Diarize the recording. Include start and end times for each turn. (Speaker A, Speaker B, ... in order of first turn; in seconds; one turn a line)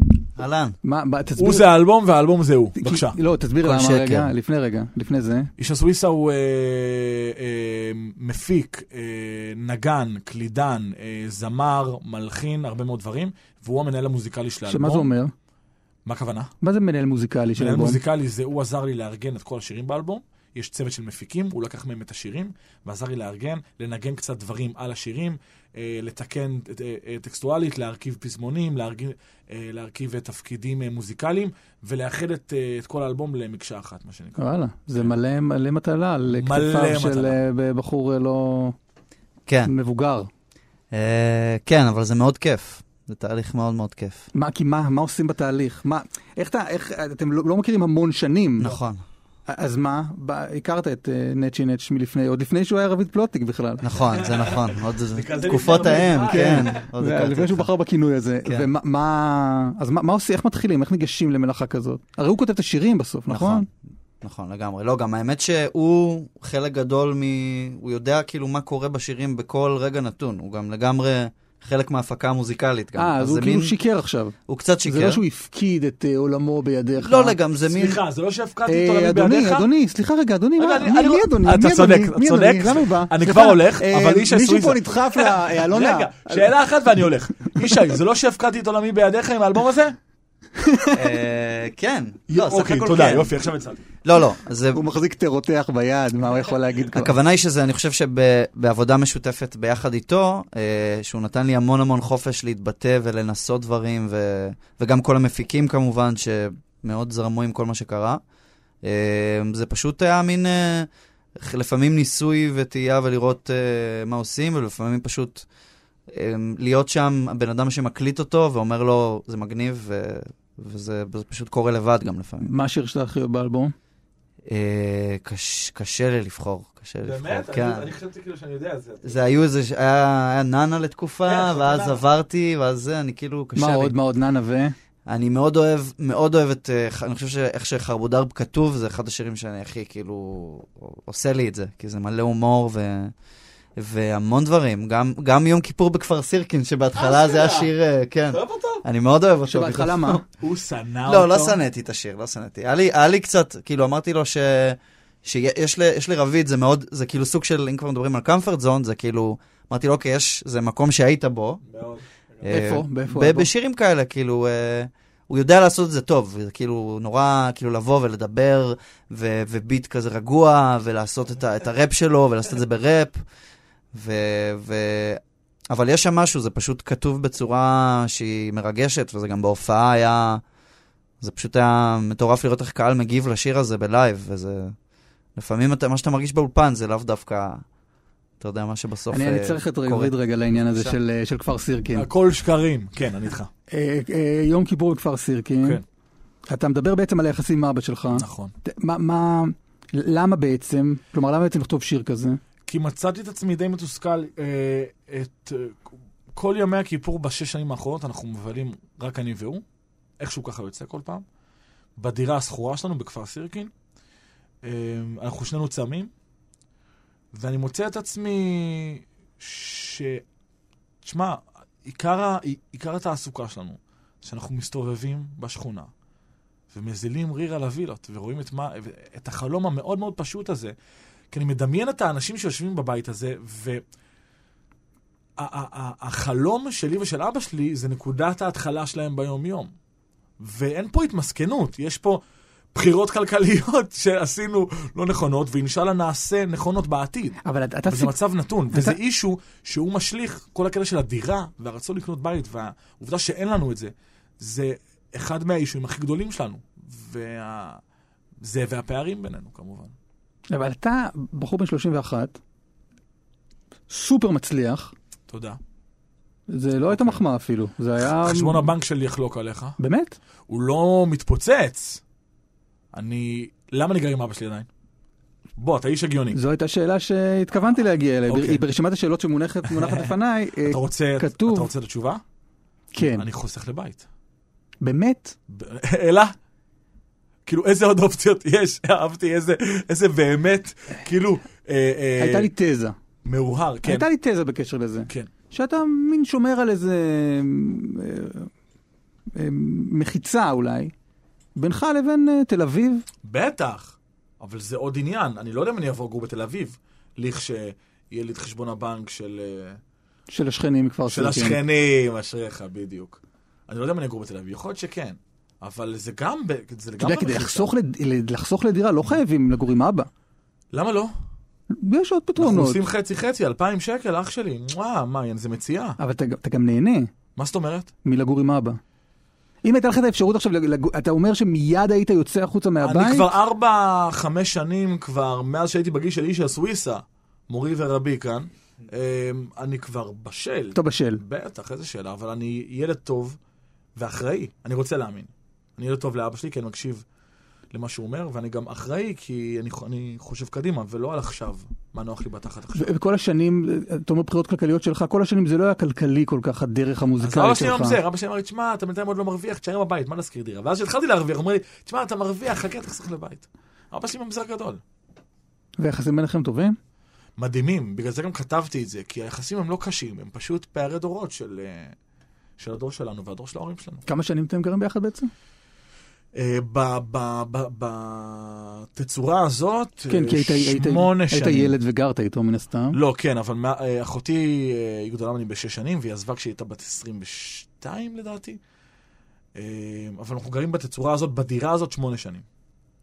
Speaker A: 0.4-0.8
Speaker B: 0.8-1.7
Speaker C: 1.4-3.2
Speaker B: 2.8-5.5
Speaker A: 3.6-4.3
Speaker C: 5.6-15.1
Speaker B: 14.7-15.3
Speaker C: 16.0-16.5
Speaker B: 16.6-18.0
Speaker C: 17.6-35.1
Speaker B: 34.4-38.8
Speaker C: 36.3-37.4
Speaker A: 39.5-39.7
Speaker B: 39.7-40.3
Speaker A: 40.9-44.3
Speaker B: 44.3-48.7
Speaker A: 48.6-49.0
Speaker B: 49.5-53.8
Speaker A: 53.8-57.7
Speaker C: 54.1-56.8
Speaker B: 56.2-63.6
Speaker A: 63.3-63.7
Speaker A: 64.2-73.8
Speaker B: 73.0-77.3
Speaker A: 74.5-75.2
Speaker A: 77.0-78.0
Speaker C: 77.6-79.7
Speaker B: 78.7-86.5
Speaker C: 80.6-90.0
Speaker B: 90.6-91.1
Speaker A: 90.9-93.4
Speaker C: 92.3-93.8
Speaker A: 94.0-94.8
Speaker B: 94.7-97.1
Speaker A: 96.9-108.2
Speaker A: 108.8-115.5
Speaker A: 116.1-122.5
Speaker B: 122.4-123.7
Speaker A: 124.5-127.9
Speaker C: 127.0-129.2
Speaker A: 129.0-133.9
Speaker C: 131.2-132.0
Speaker B: 133.6-134.7
Speaker A: 135.1-143.1
Speaker A: 143.8-150.2
Speaker C: 146.9-147.7
Speaker C: 148.3-148.8
Speaker B: 149.4-150.2
Speaker C: 150.4-151.6
Speaker A: 151.1-161.6
Speaker C: 161.7-162.6
Speaker A: 162.4-173.2
Speaker B: 162.5-163.5
Speaker A: 173.9-180.4
Speaker A: 181.2-184.7
Speaker A: 185.4-187.6
Speaker A: 188.4-190.9
Speaker B: 189.1-192.1
Speaker C: 191.9-193.5
Speaker B: 193.7-195.8
Speaker B: 196.5-202.4
Speaker C: 198.1-198.5
Speaker C: 202.7-209.6
Speaker C: 210.2-211.2
Speaker C: 212.0-213.7
Speaker C: 214.6-216.1
Speaker C: 217.3-220.2
Speaker C: 221.0-225.9
Speaker C: 226.7-230.7
Speaker C: 231.3-233.8
Speaker C: 235.4-239.7
Speaker C: 240.4-242.2
Speaker C: 242.7-257.8
Speaker B: 247.4-248.2
Speaker B: 248.7-249.0
Speaker C: 258.4-259.9
Speaker B: 260.5-262.4
Speaker B: 263.9-264.9
Speaker C: 265.3-265.6
Speaker B: 266.5-268.7
Speaker C: 266.9-267.2
Speaker C: 268.0-269.8
Speaker B: 269.8-270.2
Speaker C: 270.5-272.0
Speaker C: 272.9-274.7
Speaker C: 275.6-276.4
Speaker B: 276.3-281.7
Speaker C: 278.3-278.6
Speaker C: 279.7-282.2
Speaker B: 282.9-283.3
Speaker C: 283.0-284.1
Speaker B: 284.8-285.4
Speaker C: 285.5-286.4
Speaker C: 287.5-292.5
Speaker B: 292.2-292.9
Speaker C: 293.2-294.1
Speaker B: 293.8-298.5
Speaker B: 299.4-300.9
Speaker B: 301.6-303.0
Speaker C: 303.2-309.8
Speaker B: 310.3-311.6
Speaker C: 311.1-317.7
Speaker B: 317.0-320.1
Speaker C: 320.7-321.1
Speaker B: 321.7-322.8
Speaker C: 322.4-326.0
Speaker B: 326.0-327.1
Speaker C: 327.4-327.9
Speaker B: 328.0-328.8
Speaker B: 329.6-333.3
Speaker C: 332.8-343.4
Speaker B: 340.7-341.2
Speaker C: 344.0-347.0
Speaker C: 347.7-352.9
Speaker B: 352.8-358.0
Speaker C: 357.2-364.8
Speaker B: 365.8-366.8
Speaker C: 367.4-372.0
Speaker C: 372.6-374.0
Speaker B: 374.1-375.3
Speaker C: 376.3-381.8
Speaker B: 380.1-383.0
Speaker C: 382.9-388.6
Speaker C: 389.5-392.4